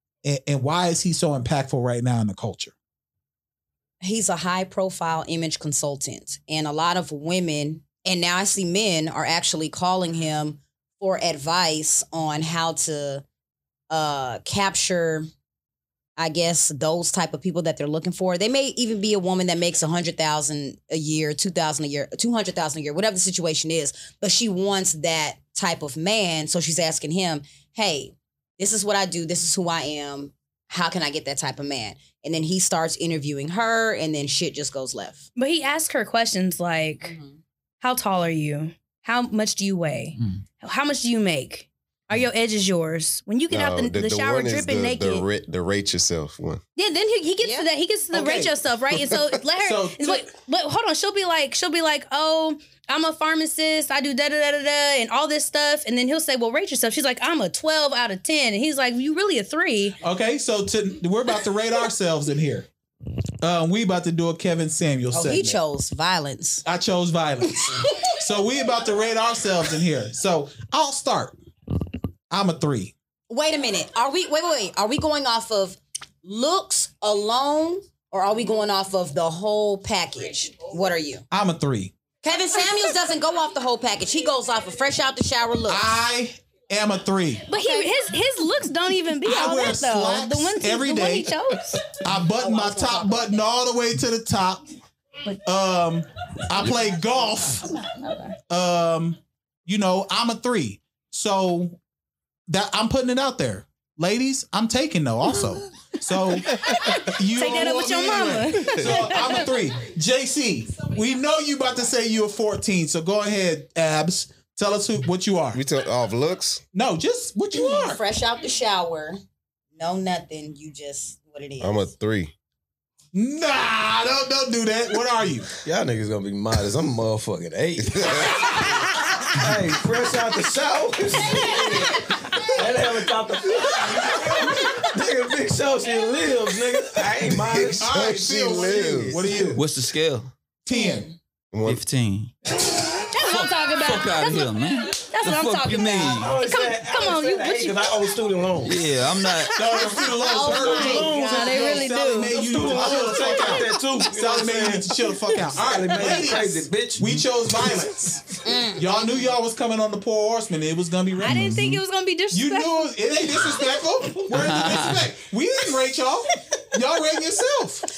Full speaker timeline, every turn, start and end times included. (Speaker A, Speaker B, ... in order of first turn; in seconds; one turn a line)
Speaker A: 0.2-2.7
Speaker B: 4.0-13.2
Speaker B: 13.9-15.3
Speaker B: 16.2-35.2
Speaker C: 35.4-37.1
Speaker B: 37.0-37.4
Speaker C: 37.8-45.2
Speaker D: 43.5-46.6
Speaker C: 46.8-60.0
Speaker B: 47.4-47.7
Speaker A: 48.1-48.5
Speaker A: 49.6-50.3
Speaker A: 60.0-62.7
Speaker A: 63.4-65.6
Speaker B: 65.1-66.6
Speaker A: 66.6-71.4
Speaker A: 72.3-72.9
Speaker B: 73.3-81.2
Speaker A: 81.3-81.9
Speaker B: 82.2-85.9
Speaker C: 82.5-82.9
Speaker A: 85.7-87.5
Speaker C: 87.5-91.9
Speaker B: 87.5-87.9
Speaker A: 89.2-94.6
Speaker B: 92.4-93.4
Speaker A: 95.4-97.7
Speaker C: 97.8-98.3
Speaker A: 98.5-101.8
Speaker A: 102.5-115.6
Speaker C: 106.6-109.6
Speaker D: 115.5-116.6
Speaker A: 116.7-118.0
Speaker B: 117.5-119.2
Speaker B: 119.8-121.9
Speaker D: 121.6-122.3
Speaker A: 123.1-125.5
Speaker E: 125.6-128.7
Speaker D: 127.9-128.4
Speaker E: 129.2-137.9
Speaker B: 131.3-131.9
Speaker A: 133.8-134.4
Speaker A: 137.5-139.6
Speaker D: 137.6-139.4
Speaker E: 138.8-139.2
Speaker F: 139.6-140.3
Speaker A: 140.6-141.1
Speaker B: 140.7-141.1
Speaker D: 141.5-141.8
Speaker F: 141.6-146.3
Speaker C: 143.1-148.1
Speaker E: 146.1-148.8
Speaker F: 148.6-149.6
Speaker C: 149.5-152.4
Speaker A: 149.6-161.7
Speaker B: 150.0-151.2
Speaker E: 150.6-157.1
Speaker C: 153.0-153.6
Speaker B: 158.4-159.0
Speaker C: 161.2-162.9
Speaker F: 161.3-161.8
Speaker A: 162.3-167.9
Speaker F: 164.3-165.1